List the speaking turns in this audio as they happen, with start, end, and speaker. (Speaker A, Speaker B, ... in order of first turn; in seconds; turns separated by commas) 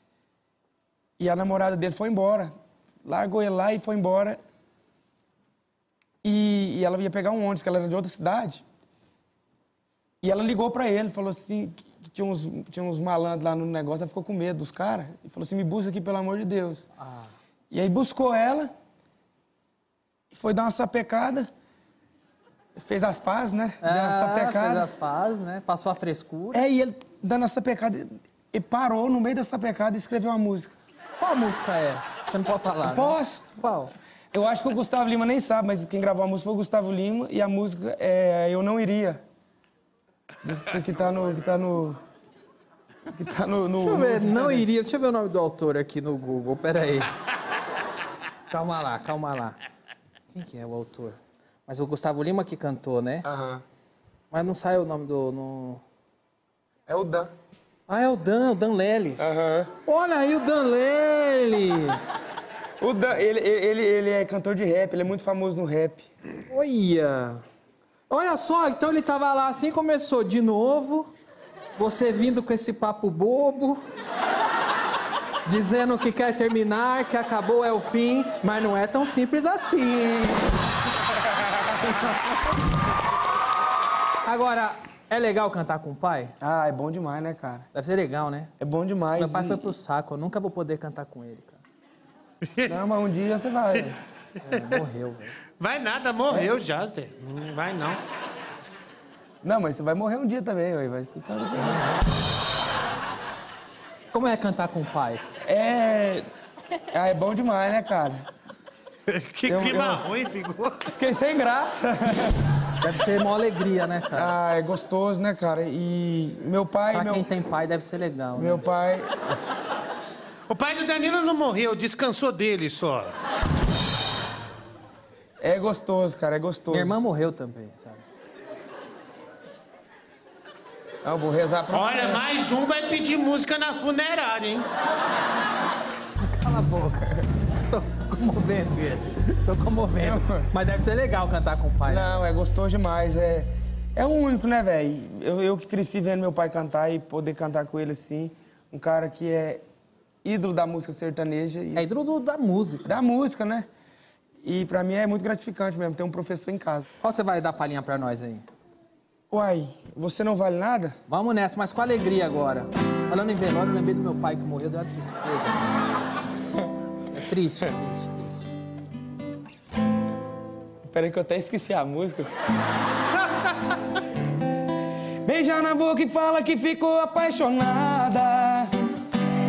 Speaker A: 1.2-2.5, Speaker A: 3.0-4.4, Speaker A: 6.2-8.6, Speaker A: 10.2-16.8, Speaker B: 17.0-17.3, Speaker A: 17.7-18.7, Speaker A: 20.3-21.5, Speaker A: 22.8-24.9, Speaker B: 23.8-26.6, Speaker A: 26.5-30.7, Speaker B: 31.2-33.9, Speaker A: 32.9-33.5, Speaker A: 34.3-39.2, Speaker A: 40.4-42.0, Speaker A: 43.1-44.6, Speaker B: 43.8-47.1, Speaker B: 48.5-49.6, Speaker B: 50.3-53.2, Speaker A: 53.2-53.6, Speaker B: 54.3-55.8, Speaker A: 56.9-57.3, Speaker B: 57.9-59.3, Speaker A: 59.2-59.7, Speaker B: 59.8-62.2, Speaker A: 62.8-66.1, Speaker B: 66.5-67.4, Speaker B: 68.1-71.1, Speaker B: 71.8-73.8, Speaker B: 75.5-80.6, Speaker B: 81.7-82.4, Speaker B: 84.2-86.3, Speaker A: 86.4-87.7, Speaker B: 87.7-88.5, Speaker A: 88.6-89.7, Speaker B: 89.2-91.6, Speaker A: 92.7-93.9, Speaker B: 94.4-95.3, Speaker C: 95.6-98.0, Speaker A: 99.4-101.9, Speaker B: 104.1-105.2, Speaker A: 105.5-106.2, Speaker A: 106.9-108.2, Speaker C: 109.1-110.9, Speaker A: 109.5-110.0, Speaker A: 110.9-112.3, Speaker B: 112.8-114.3, Speaker A: 114.1-117.2, Speaker B: 116.9-118.6, Speaker A: 118.4-119.1, Speaker C: 120.5-123.1, Speaker A: 125.4-127.0, Speaker B: 126.7-128.0, Speaker A: 131.0-132.2, Speaker C: 131.7-134.7, Speaker B: 136.2-142.2, Speaker A: 140.0-140.5, Speaker A: 141.9-149.6, Speaker A: 150.2-151.9, Speaker B: 151.7-152.9, Speaker A: 152.8-153.7, Speaker A: 154.4-156.8, Speaker B: 157.0-158.4, Speaker A: 159.3-161.0, Speaker B: 161.1-166.0, Speaker B: 167.1-168.5, Speaker A: 170.9-172.3, Speaker A: 175.2-178.7